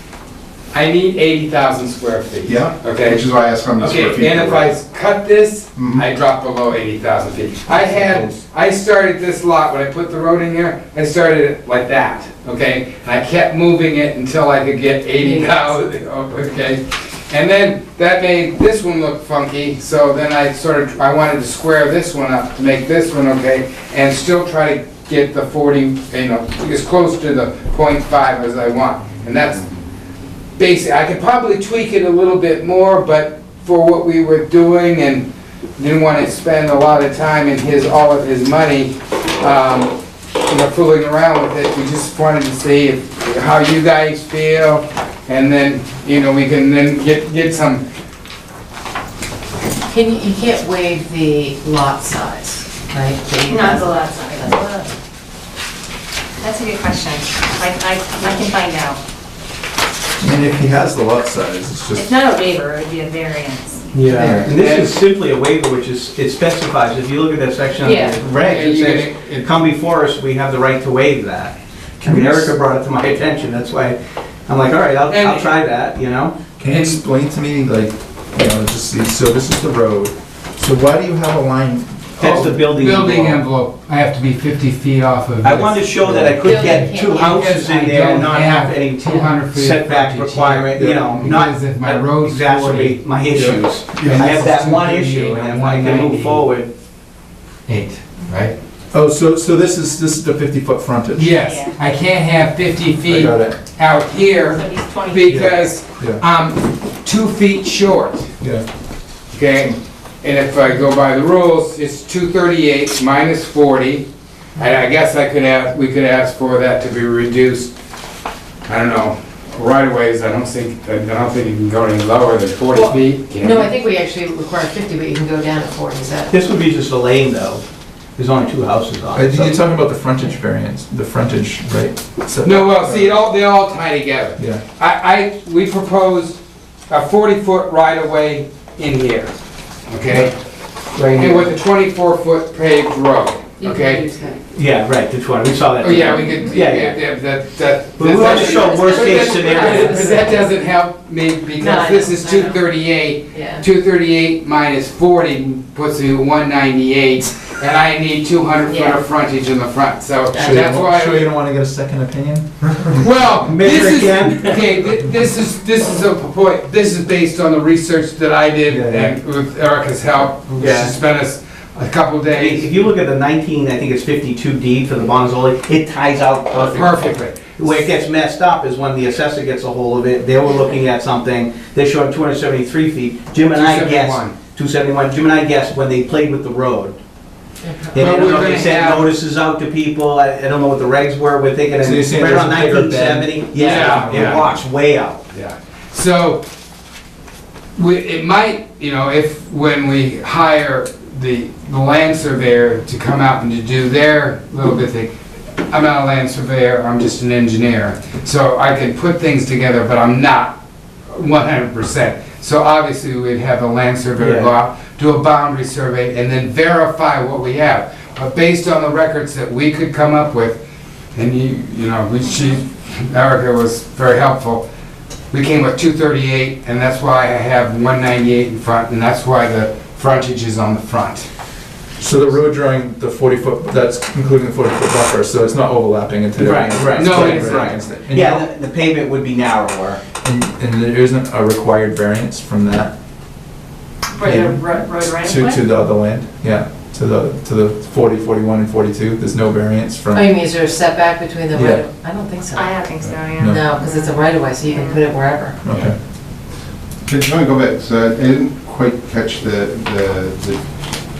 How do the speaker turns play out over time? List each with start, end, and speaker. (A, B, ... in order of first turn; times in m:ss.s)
0:00.7-0:29.7 A
0:02.4-0:04.7 B
0:05.8-0:06.0 B
0:15.2-0:15.5 C
0:30.6-0:39.9 A
0:40.4-0:47.8 A
0:49.9-0:54.9 C
0:53.5-0:54.2 D
0:56.4-0:59.0 D
1:00.2-1:02.1 E
1:02.0-1:03.8 D
1:03.9-1:16.3 F
1:04.1-1:04.5 E
1:04.3-1:05.0 A
1:07.8-1:08.2 C
1:08.3-1:09.5 A
1:12.0-1:12.5 E
1:15.1-1:15.6 A
1:16.6-1:22.6 E
1:16.6-1:17.0 A
1:22.2-1:23.4 F
1:22.2-1:25.8 A
1:25.4-1:36.7 F
1:26.0-1:26.4 E
1:26.4-1:27.5 C
1:26.5-1:33.0 A
1:30.7-1:31.3 E
1:33.3-1:34.2 E
1:34.0-1:36.5 A
1:37.7-1:38.6 A
1:38.9-1:41.3 E
1:41.2-1:48.3 A
1:41.4-1:41.7 D
1:43.0-1:43.6 E
1:44.5-1:45.2 D
1:45.2-1:46.2 E
1:49.3-1:54.0 A
1:54.6-1:57.7 A
1:58.6-2:03.7 A
2:02.7-2:06.4 C
2:06.3-2:07.6 F
2:08.2-2:09.8 F
2:09.1-2:13.1 E
2:12.4-2:19.3 A
2:14.4-2:14.6 E
2:19.9-2:20.3 A
2:20.9-2:21.5 F
2:21.1-2:24.1 A
2:23.6-2:24.4 C
2:24.5-2:27.0 F
2:25.8-2:41.3 A
2:28.0-2:30.2 F
2:28.2-2:30.4 C
2:31.6-2:32.6 C
2:33.3-2:33.6 C
2:38.7-2:39.0 C
2:40.4-2:42.6 E
2:42.9-2:52.7 A
2:43.4-2:44.6 F
2:48.7-2:49.1 E
2:48.7-2:49.0 F
2:50.6-2:51.0 F
2:52.3-3:07.0 F
2:56.5-2:57.8 A
3:03.5-3:04.3 A
3:07.6-3:07.9 C
3:07.9-3:15.2 F
3:08.0-3:09.1 A
3:11.8-3:14.5 E
3:13.5-3:14.5 A
3:15.3-3:16.4 A
3:17.7-3:25.1 A
3:25.7-3:30.6 A
3:31.1-3:40.6 A
3:34.2-3:34.5 F
3:41.1-3:44.6 A
3:45.3-3:51.3 A
3:52.0-3:58.4 E
3:56.4-4:00.0 F
3:56.9-3:57.8 A
4:00.2-4:02.9 E
4:04.1-4:05.6 D
4:04.2-4:10.3 E
4:10.1-4:12.9 C
4:11.5-4:11.8 E
4:12.6-4:14.2 D
4:13.4-4:13.6 E
4:13.4-4:15.6 C
4:14.7-4:15.0 D
4:15.6-4:16.0 E
4:17.1-4:20.6 B